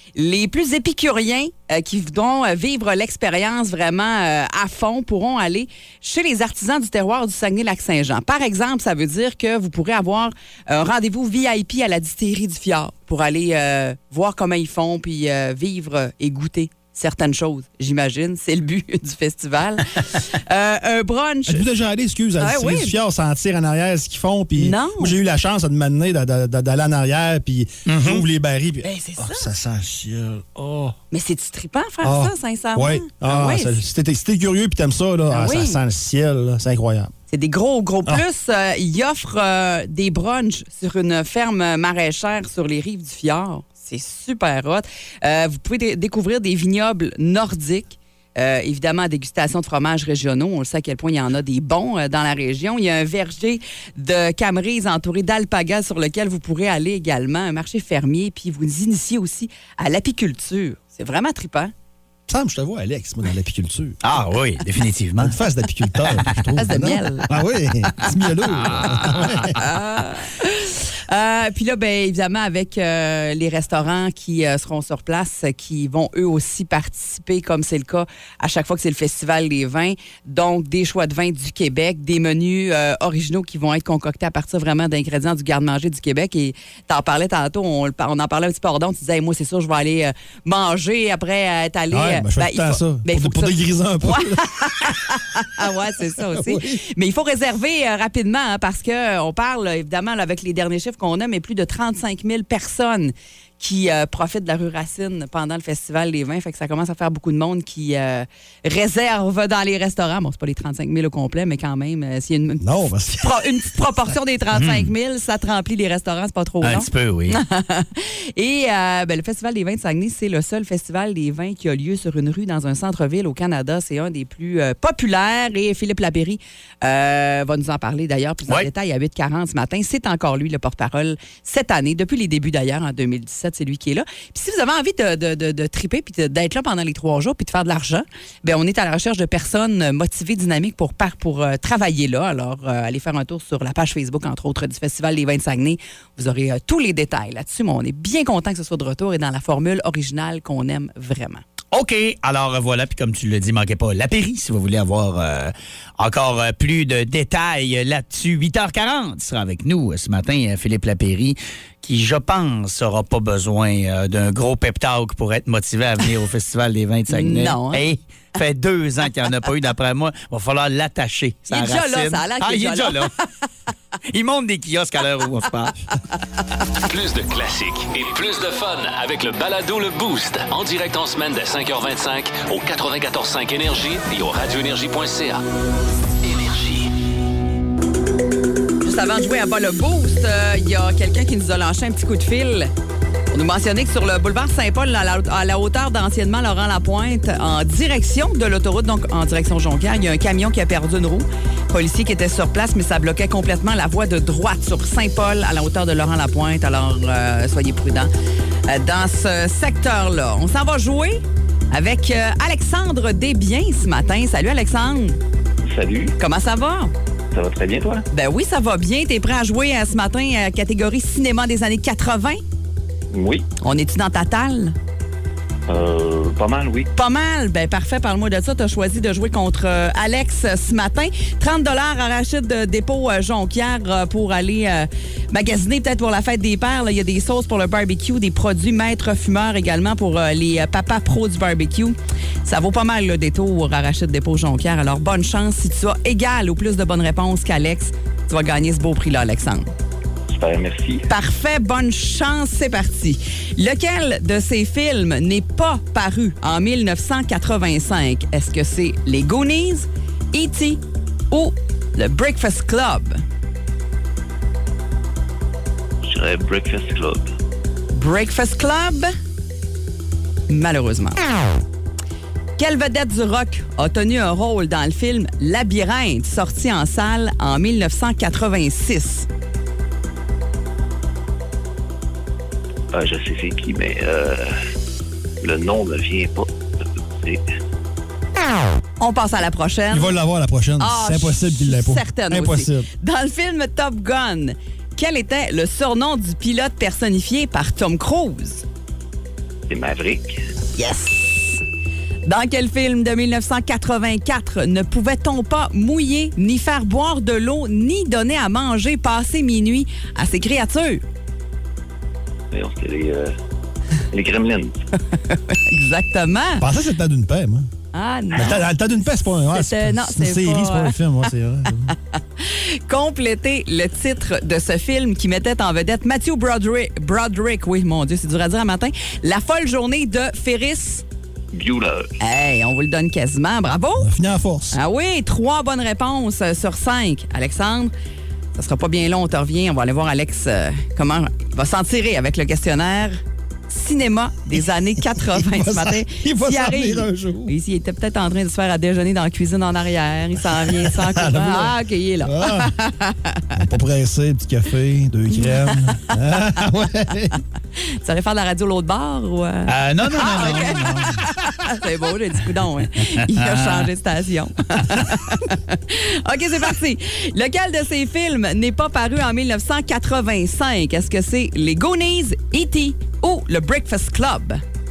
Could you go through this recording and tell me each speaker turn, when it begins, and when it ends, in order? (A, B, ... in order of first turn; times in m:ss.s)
0:00.2-0:21.7 A
0:21.5-0:31.0 B
0:22.4-0:23.0 A
0:24.6-0:25.2 A
0:27.9-0:28.2 C
0:28.8-0:29.5 A
0:31.1-0:33.8 A
0:32.0-0:37.1 B
0:35.3-0:35.8 A
0:37.3-1:01.7 A
1:02.3-1:04.0 B
1:04.0-1:05.4 C
1:05.2-1:09.6 B
1:06.1-1:06.4 C
1:06.6-1:07.3 A
1:08.7-1:09.4 C
1:09.5-1:52.7 A
1:31.9-1:34.4 B
1:36.0-1:36.8 B
1:52.6-1:53.5 B
1:53.2-2:31.4 A
1:54.5-1:54.9 C
1:56.6-1:57.4 C
2:31.7-2:53.1 C
2:47.1-2:47.8 A
2:51.5-2:53.2 A
2:54.1-2:55.8 C
2:56.8-3:05.4 D
3:06.2-3:06.9 D
3:08.8-3:12.7 A
3:13.3-3:28.1 A
3:28.7-3:35.2 A
3:35.7-3:36.1 E
3:36.2-3:36.9 A
3:37.3-3:38.0 E
3:38.1-3:42.4 A
3:43.1-3:43.5 E
3:43.6-3:44.8 A
3:45.7-3:46.9 E
3:47.0-4:09.7 A
4:10.3-4:11.0 E
4:11.1-4:23.2 A
4:26.0-4:27.3 E
4:27.9-4:29.1 A
4:30.5-4:31.2 A
4:32.6-4:39.3 A
4:42.9-4:44.6 E
4:45.4-4:46.5 E
4:47.2-4:47.4 E
4:49.0-4:50.1 A
4:49.9-4:52.9 B
4:50.8-4:58.6 A
4:59.7-5:00.4 E
5:00.7-5:01.6 A
5:02.2-5:11.0 A
5:12.5-5:13.3 E
5:14.1-5:14.8 E
5:15.1-5:16.6 A
5:16.6-5:17.7 B
5:17.9-5:18.7 A
5:18.3-5:22.0 B
5:19.5-5:21.0 A
5:22.1-5:31.0 A
5:31.5-5:32.1 E
5:32.2-5:34.1 A
5:34.0-5:34.8 B
5:34.7-5:37.9 A
5:38.6-5:53.5 A
5:45.1-5:47.5 B
5:50.6-5:52.7 B
5:53.5-5:57.4 B
5:55.3-5:56.7 A
5:57.8-6:00.9 A
5:59.7-6:01.1 C
6:00.6-6:01.2 B
6:01.6-6:14.6 A
6:03.4-6:03.9 C